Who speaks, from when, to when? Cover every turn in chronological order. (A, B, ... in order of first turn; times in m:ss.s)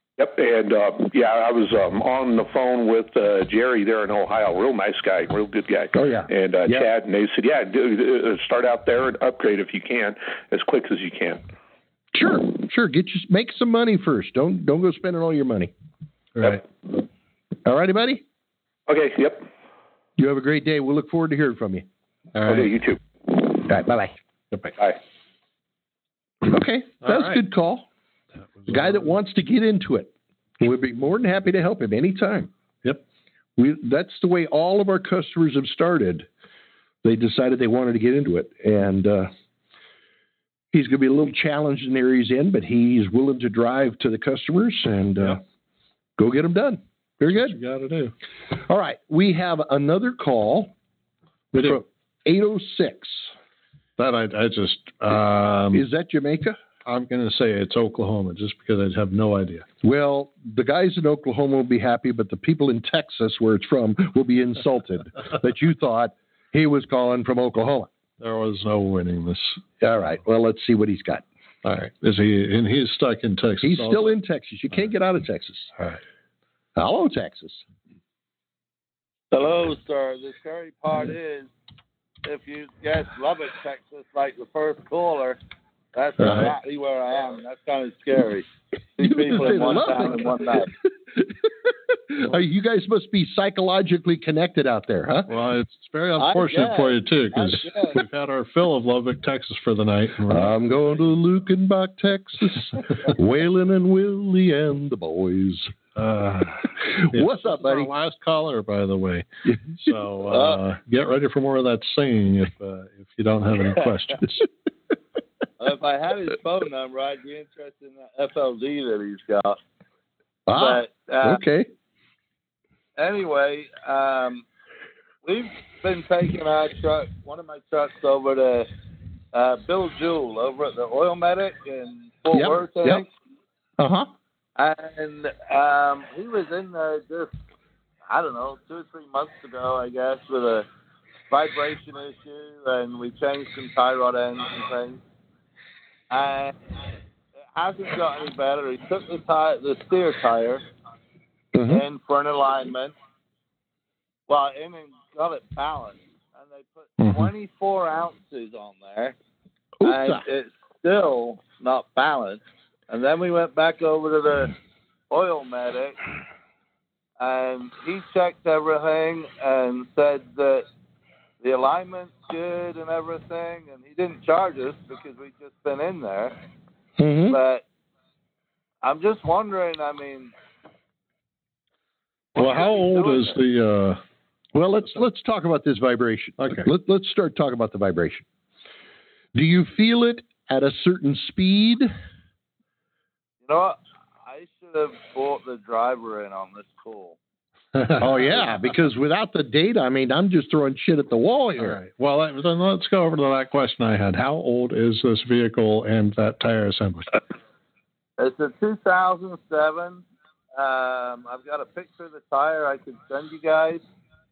0:00.2-0:11.4 A
0:06.0-0:06.9 B
0:12.1-0:15.7 B
0:16.4-0:16.6 C
0:17.6-0:18.2 B
0:18.9-0:19.5 A
0:20.2-0:21.9 B
0:22.4-0:22.7 C
0:22.5-0:23.6 A
0:23.7-0:24.2 B
0:26.5-0:27.9 B
0:27.0-0:27.4 C
0:28.4-0:29.1 C
0:28.7-0:32.5 B
0:33.6-0:36.3 B
0:37.0-0:39.3 B
0:40.7-0:45.4 B
0:46.2-0:47.6 B
0:47.3-0:48.1 C
0:48.5-0:50.7 B
0:51.5-0:51.8 C
0:51.5-0:53.3 B
0:54.0-0:55.8 C
0:55.7-0:56.6 B
0:56.9-0:59.7 C
0:59.8-1:07.9 B
1:08.2-1:09.6 C
1:09.8-1:11.2 B
1:11.6-1:14.1 C
1:13.6-1:15.7 B
1:16.8-1:17.6 B
1:19.3-1:21.5 D
1:22.2-1:25.4 D
1:25.9-1:28.5 D
1:26.2-1:26.5 C
1:26.2-1:26.5 B
1:29.0-1:30.7 D
1:29.0-1:35.3 B
1:35.3-1:40.5 C
1:36.2-1:38.0 D
1:40.3-1:45.7 B
1:46.0-1:49.3 C
1:46.8-1:47.9 B
1:49.5-1:49.8 B
1:49.8-1:54.5 C
1:50.2-1:50.6 D
1:55.6-1:59.6 D
2:00.5-2:01.7 B
2:00.5-2:01.4 D
2:03.0-2:04.4 D
2:05.2-2:08.7 D
2:09.3-2:13.1 D
2:12.3-2:13.0 B
2:13.8-2:14.1 B
2:14.6-2:17.3 D
2:18.1-2:20.7 D
2:21.3-2:25.0 D
2:26.1-2:26.5 D
2:27.5-2:30.6 D
2:31.5-2:31.8 B
2:31.7-2:33.0 D
2:34.3-2:39.2 D
2:37.0-2:37.3 C
2:39.8-2:40.3 B
2:39.8-2:44.5 D
2:45.1-2:46.0 D
2:47.2-2:50.7 D
2:51.4-2:56.4 D
2:57.0-2:57.4 B
2:57.3-2:57.6 D
2:58.8-3:00.3 D
3:02.4-3:04.0 C
3:02.4-3:03.4 D
3:04.5-3:08.2 B
3:06.4-3:06.7 C
3:09.3-3:11.9 B
3:13.4-3:17.2 D
3:17.8-3:18.5 C
3:18.0-3:21.8 B
3:21.6-3:27.2 C
3:28.2-3:30.0 D
3:30.6-3:33.8 D